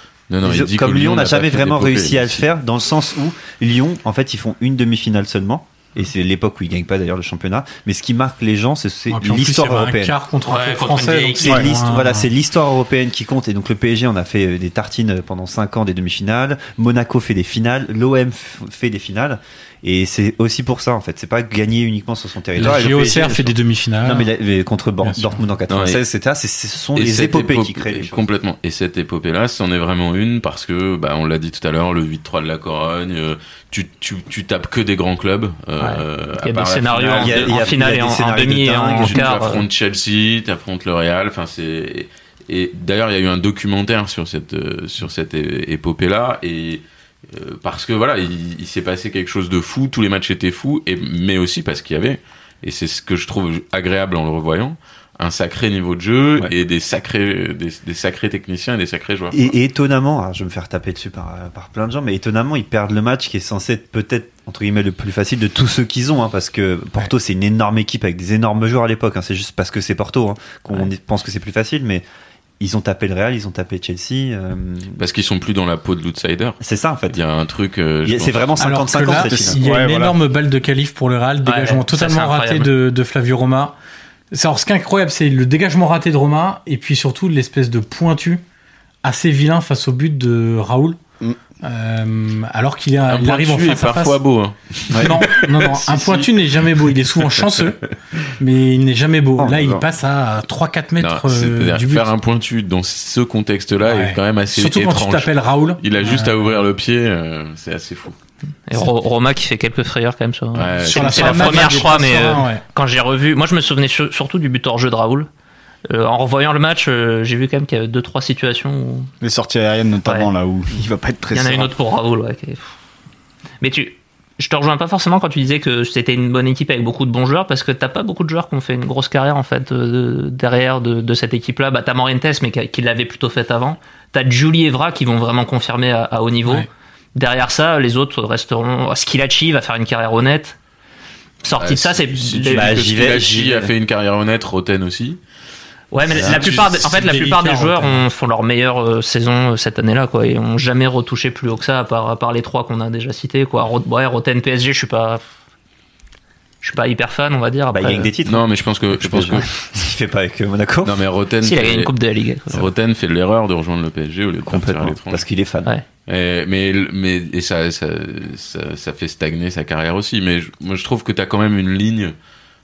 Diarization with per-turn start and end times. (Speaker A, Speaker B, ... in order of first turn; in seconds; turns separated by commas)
Speaker A: 0.3-2.5, Speaker B: 0.4-10.2, Speaker C: 9.1-12.3, Speaker D: 10.5-11.7, Speaker B: 11.4-28.2, Speaker C: 22.6-24.3, Speaker C: 25.0-25.4, Speaker A: 25.7-26.0, Speaker A: 26.9-37.7, Speaker D: 35.8-39.6, Speaker B: 37.2-39.3, Speaker A: 38.8-59.4, Speaker B: 59.3-72.0, Speaker B: 72.6-75.0, Speaker A: 75.0-76.6, Speaker B: 76.6-77.2, Speaker A: 77.1-78.5, Speaker B: 78.0-79.6, Speaker C: 78.6-83.7, Speaker E: 79.1-80.2, Speaker D: 81.4-82.7, Speaker C: 84.3-88.4, Speaker C: 89.0-91.0, Speaker C: 91.6-94.2, Speaker A: 93.1-97.7, Speaker C: 95.0-97.8, Speaker C: 98.3-102.1, Speaker B: 99.4-99.8, Speaker A: 101.0-108.2, Speaker C: 103.8-106.5, Speaker D: 108.7-115.3, Speaker A: 110.5-111.9, Speaker C: 110.8-112.6, Speaker D: 115.9-119.1, Speaker E: 119.2-121.7, Speaker D: 121.3-122.7, Speaker D: 123.6-140.6, Speaker D: 141.4-142.8, Speaker A: 141.6-145.2, Speaker B: 142.5-143.7, Speaker D: 145.9-155.2, Speaker A: 146.1-146.7, Speaker C: 146.2-148.0, Speaker D: 156.6-158.1, Speaker B: 157.7-161.0, Speaker A: 158.2-159.5, Speaker A: 160.8-161.9, Speaker D: 161.4-162.7, Speaker A: 162.5-165.2, Speaker B: 164.4-165.7, Speaker A: 166.1-172.1